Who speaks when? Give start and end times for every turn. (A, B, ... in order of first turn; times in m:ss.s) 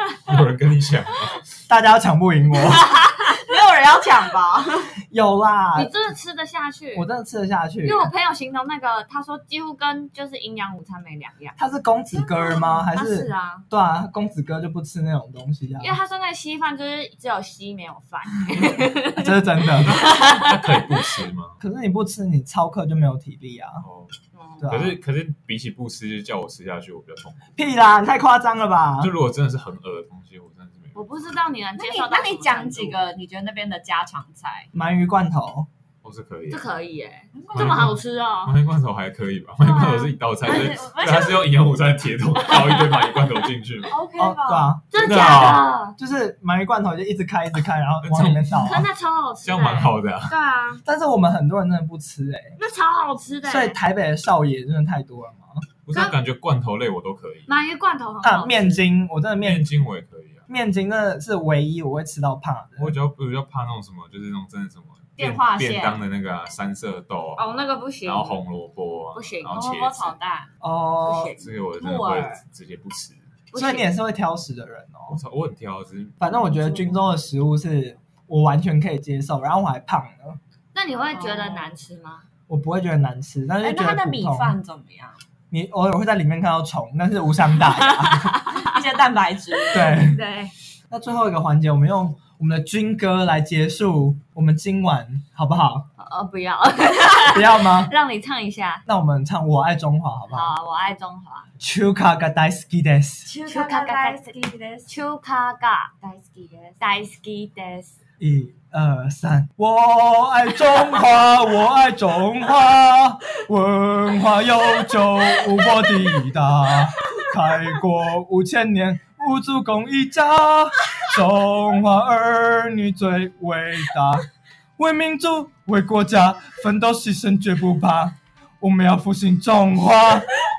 0:00.2-0:01.4 A
0:01.7-0:02.9 B
0:03.1-0:05.0 C
0:05.1-0:05.9 B
0:05.7-0:07.0 D
0:06.9-0:08.1 B
0:07.8-0:11.6 D
0:11.6-0:16.0 B
0:12.1-0:13.6 D
0:15.8-0:19.4 D
0:19.1-0:20.0 B
0:19.8-0:21.6 A
0:20.0-0:20.5 D
0:21.6-0:23.8 B
0:23.8-0:24.1 A
0:24.3-0:24.7 D
0:24.6-0:25.0 B
0:24.7-0:27.5 A
0:27.6-0:29.1 B
0:29.0-0:31.0 A
0:30.9-0:33.0 D
0:31.8-0:34.7 C
0:34.7-0:35.7 B
0:36.0-0:36.7 A
0:36.5-0:38.5 D
0:37.3-0:37.9 C
0:37.5-0:44.0 A
0:39.6-0:40.1 D
0:40.4-0:41.5 C
0:43.9-0:44.7 C
0:44.2-0:48.8 B
0:44.9-0:46.0 D
0:45.0-0:45.6 A
0:48.0-0:48.9 A
0:48.6-0:50.8 D
0:49.4-0:50.4 A
0:50.8-0:52.6 B
0:52.6-0:53.8 D
0:53.4-0:55.6 B
0:55.8-0:57.5 A
0:55.9-0:56.2 D
0:57.5-0:58.8 D
0:58.2-0:59.7 B
0:59.4-1:00.5 A
1:00.5-1:02.9 B
1:02.8-1:10.2 A
1:05.2-1:06.0 C
1:07.4-1:08.4 D
1:09.1-1:09.6 D
1:09.5-1:10.5 C
1:10.6-1:11.4 B
1:11.0-1:11.4 D
1:11.3-1:13.3 A
1:11.8-1:12.4 C
1:13.5-1:13.9 D
1:13.5-1:15.2 B
1:15.1-1:17.0 A
1:16.2-1:20.4 B
1:20.7-1:22.2 D
1:21.1-1:21.7 C
1:22.5-1:24.6 B
1:23.6-1:25.2 C
1:25.5-1:28.4 B
1:28.0-1:28.8 D
1:28.5-1:30.0 C
1:29.7-1:30.2 B
1:29.7-1:30.5 D
1:30.9-1:35.8 B
1:36.0-1:38.8 D
1:37.3-1:37.9 B
1:38.8-1:40.5 B
1:40.3-1:41.5 D
1:41.6-1:43.3 B
1:43.2-1:44.9 C
1:43.4-1:44.2 D
1:44.8-1:45.9 D
1:46.0-1:46.8 C
1:46.8-1:47.9 D
1:48.2-2:04.3 B
2:04.8-2:10.3 B